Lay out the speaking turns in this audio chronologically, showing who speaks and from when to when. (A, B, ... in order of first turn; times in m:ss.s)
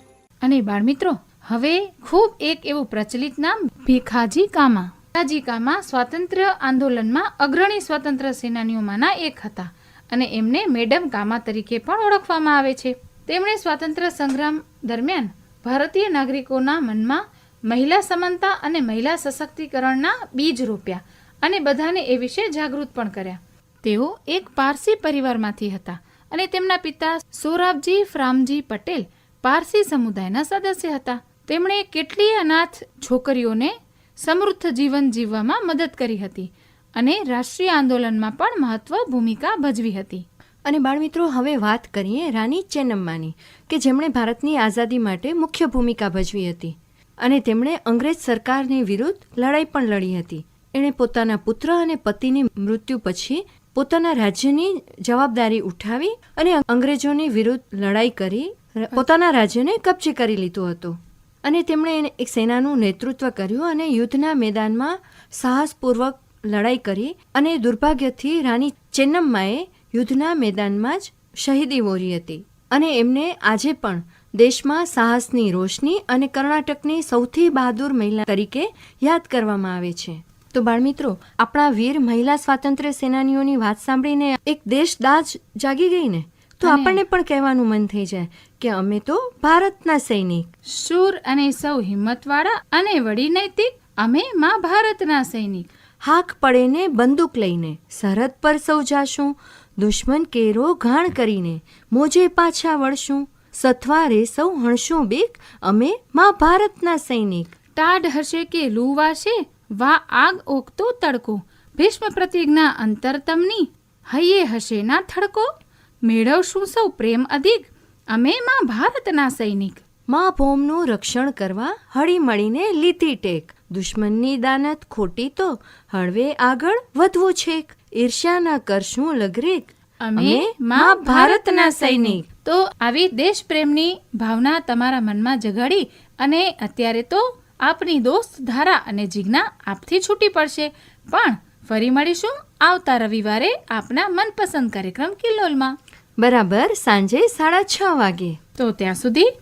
0:00.4-0:40.2 A
0:40.6-1:30.5 B
1:26.6-1:27.0 A
1:30.7-1:35.7 A
1:36.0-1:47.5 B
1:47.7-1:55.5 A
1:56.0-1:59.8 A
2:00.1-2:12.2 B
2:10.0-2:25.8 A
2:26.2-2:28.4 B
2:28.6-2:29.3 A